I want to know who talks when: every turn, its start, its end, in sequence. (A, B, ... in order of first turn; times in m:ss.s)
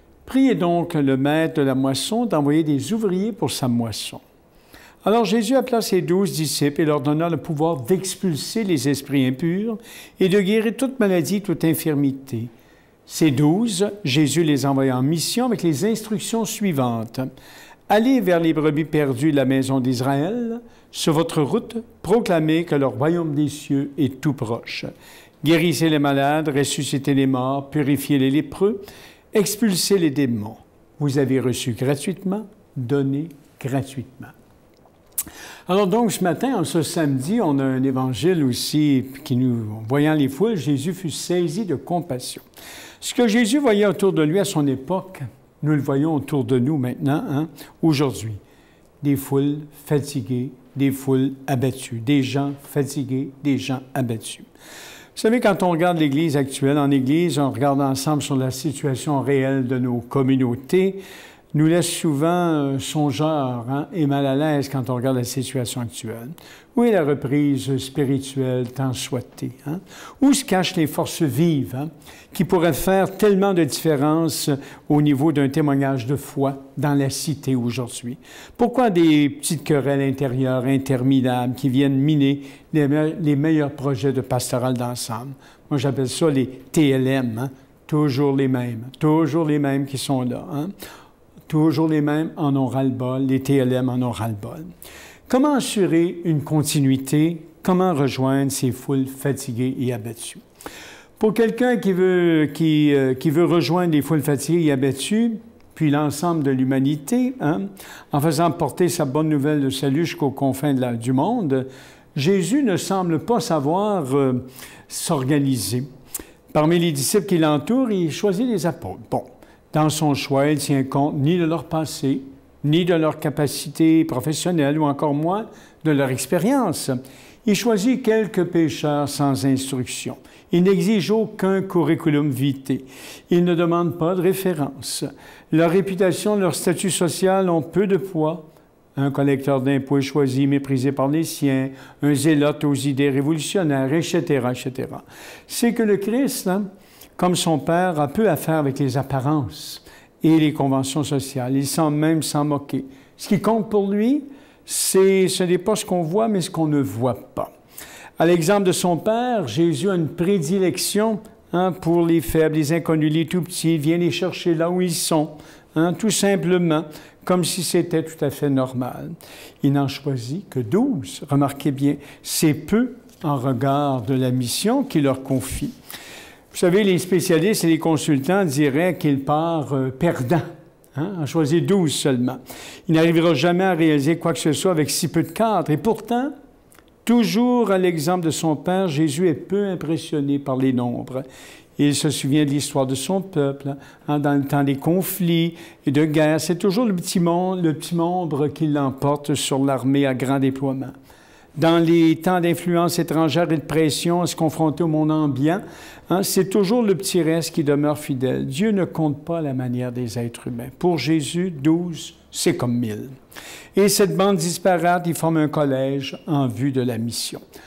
0:00.2-0:04.2 A
0:05.0-0:12.5 A
0:13.1-0:17.3 A
0:17.9-0:24.9 A
0:25.4-0:34.3 A
0:35.7-0:42.4 A
0:43.0-0:48.4 A
0:49.0-0:54.5 A
0:55.1-1:30.7 A
1:31.5-1:34.7 A
1:35.3-1:40.4 A
1:41.2-1:55.8 A
1:56.5-2:37.5 A
2:38.2-2:55.7 A
2:56.5-3:06.3 A
3:07.0-3:11.2 A
3:11.8-3:20.9 A
3:21.6-3:33.1 A
3:33.7-3:37.4 A